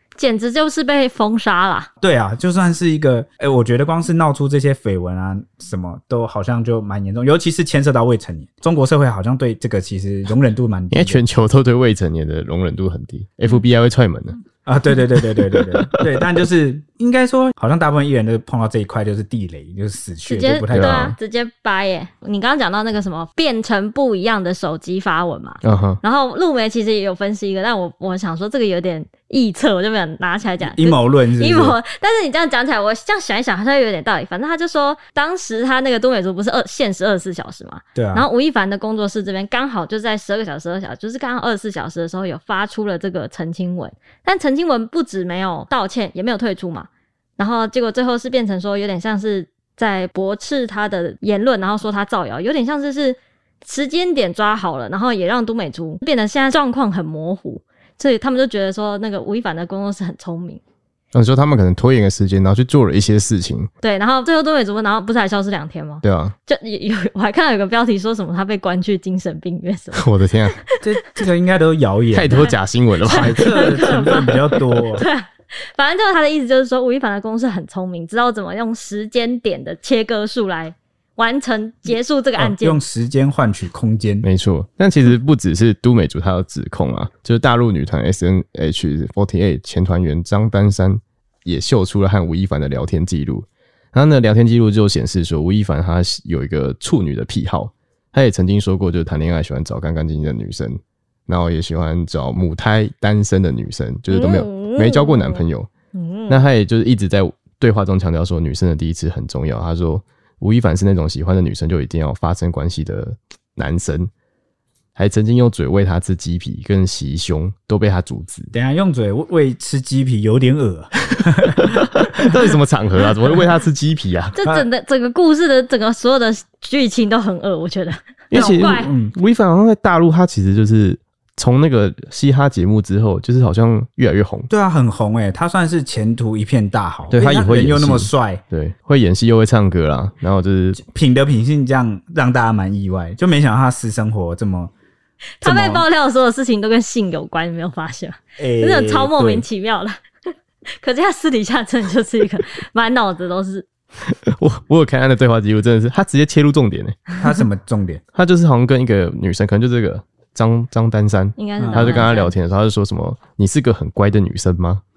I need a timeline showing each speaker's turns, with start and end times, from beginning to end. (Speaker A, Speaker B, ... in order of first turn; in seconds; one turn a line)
Speaker A: 0.2-1.9
Speaker B: 2.0-11.2
Speaker C: 10.9-14.4
Speaker B: 14.7-21.1
Speaker C: 15.2-16.2
Speaker A: 20.3-60.6
Speaker C: 20.7-21.1
Speaker C: 25.6-26.0
Speaker B: 30.6-31.8
Speaker B: 38.0-38.3
Speaker C: 61.1-63.7
Speaker A: 63.8-70.1
Speaker C: 66.0-66.3
Speaker C: 69.9-70.6
Speaker B: 70.8-72.4
Speaker C: 72.1-73.5
Speaker A: 72.3-82.8
Speaker B: 73.1-75.0
Speaker B: 82.4-84.3
Speaker C: 84.2-105.7
Speaker A: 104.1-106.5
Speaker C: 106.3-114.1
Speaker C: 115.0-118.5
Speaker B: 118.5-122.3
Speaker C: 122.1-124.4
Speaker A: 124.4-128.9
Speaker C: 128.3-134.5
Speaker B: 128.3-129.1
Speaker B: 134.5-138.4
Speaker C: 137.1-140.8
Speaker B: 140.8-144.7
Speaker A: 145.4-150.0
Speaker B: 145.4-145.8
Speaker B: 148.4-149.5
Speaker A: 150.8-153.7
Speaker C: 154.0-157.0
Speaker B: 157.2-158.0
Speaker C: 158.1-164.8
Speaker A: 161.4-162.3
Speaker B: 161.6-162.1